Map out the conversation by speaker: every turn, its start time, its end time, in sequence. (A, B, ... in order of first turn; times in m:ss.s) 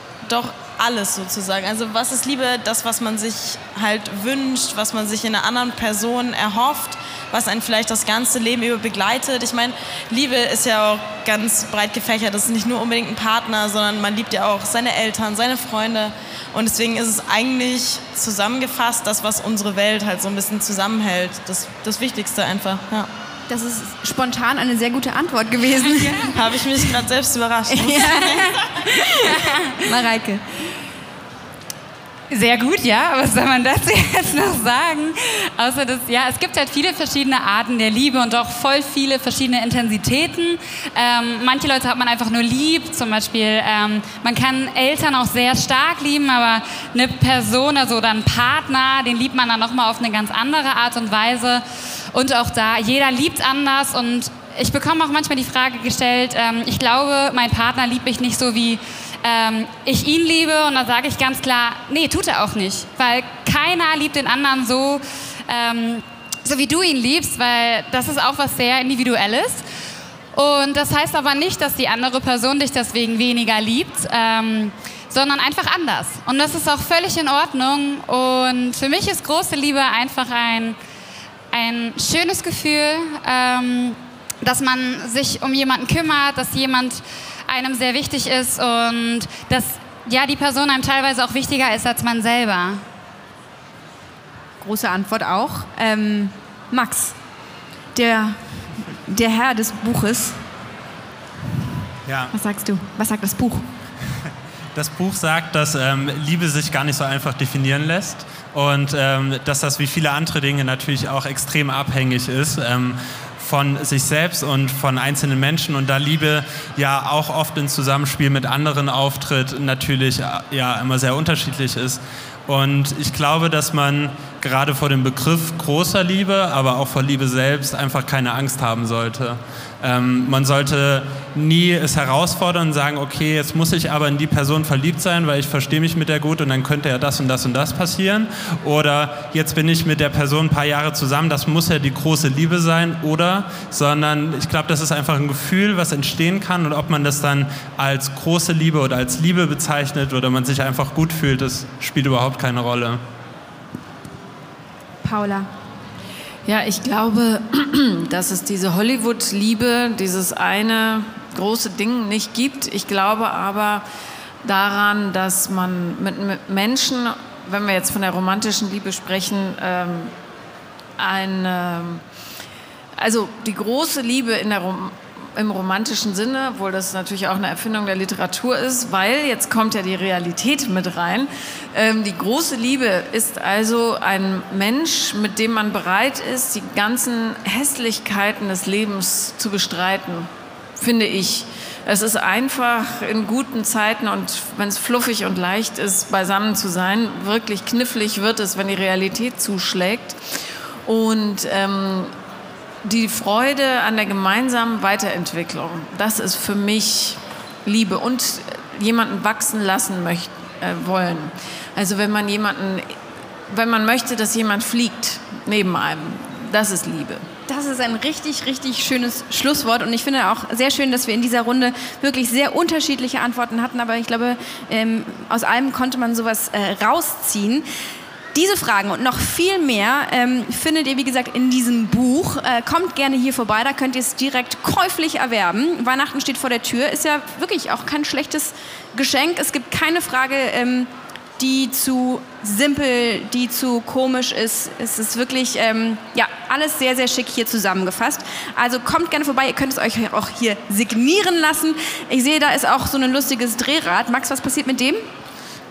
0:00.2-0:23.1 A
0:23.5-0:26.3 B
0:26.2-0:28.8 A
0:27.7-0:30.4 B
0:32.3-1:09.6 C
1:10.3-1:20.8 C
1:21.5-1:32.8 C
1:34.6-1:37.1 B
1:37.9-1:40.4 B
1:42.0-1:42.3 D
1:42.3-1:43.7 B
1:44.7-2:33.0 D
2:35.0-2:35.5 B
2:36.4-2:43.8 E
2:44.4-2:50.1 E
2:51.0-2:52.0 E
2:53.0-3:20.2 E
3:20.8-3:22.1 E
3:22.8-3:32.9 E
3:33.5-3:37.2 E
3:37.5-3:47.6 B
3:48.3-4:15.0 B